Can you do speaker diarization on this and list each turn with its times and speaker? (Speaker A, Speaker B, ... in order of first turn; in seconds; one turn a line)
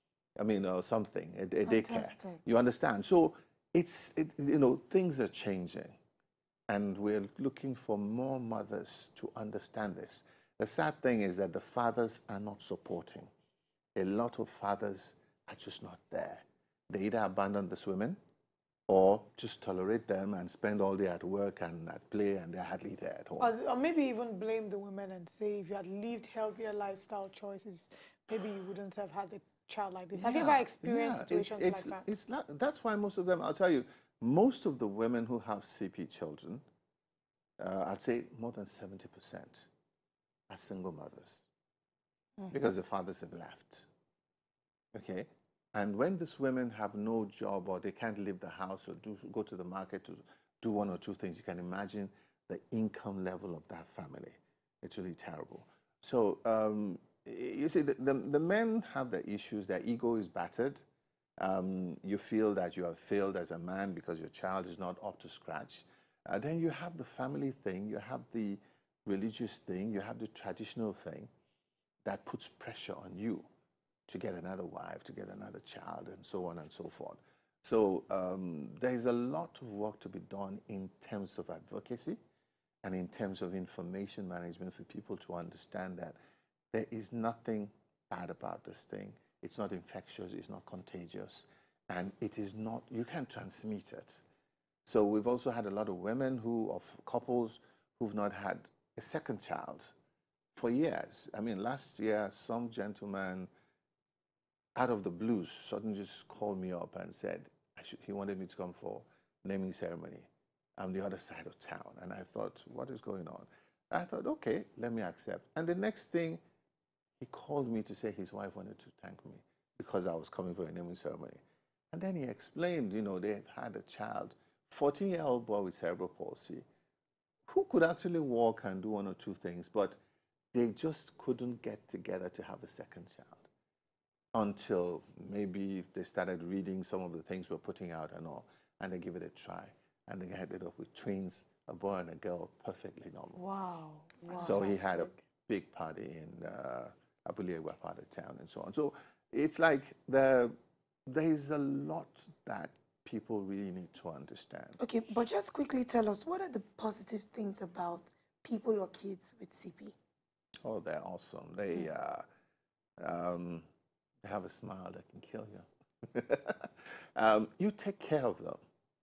Speaker A: 0.4-6.0
Speaker B: 1.6-2.4
Speaker A: 6.7-13.3
Speaker A: 13.9-18.2
Speaker A: 18.9-23.5
Speaker C: 23.4-32.1
Speaker A: 30.1-36.6
Speaker A: 37.6-39.7
Speaker A: 40.5-41.5
Speaker A: 42.5-43.9
Speaker A: 44.9-60.8
Speaker A: 61.4-71.3
Speaker A: 72.0-73.5
Speaker A: 74.1-82.2
Speaker A: 82.8-86.2
Speaker A: 86.7-94.2
Speaker A: 94.8-99.9
Speaker A: 100.5-103.5
Speaker A: 104.7-116.4
Speaker A: 117.2-126.6
Speaker A: 127.5-130.0
Speaker A: 130.5-133.4
Speaker A: 134.3-143.4
Speaker B: 143.3-145.0
Speaker A: 144.3-150.5
Speaker A: 151.1-154.8
Speaker B: 154.8-159.9
Speaker A: 160.6-162.2
Speaker A: 163.0-163.7
Speaker A: 164.2-168.6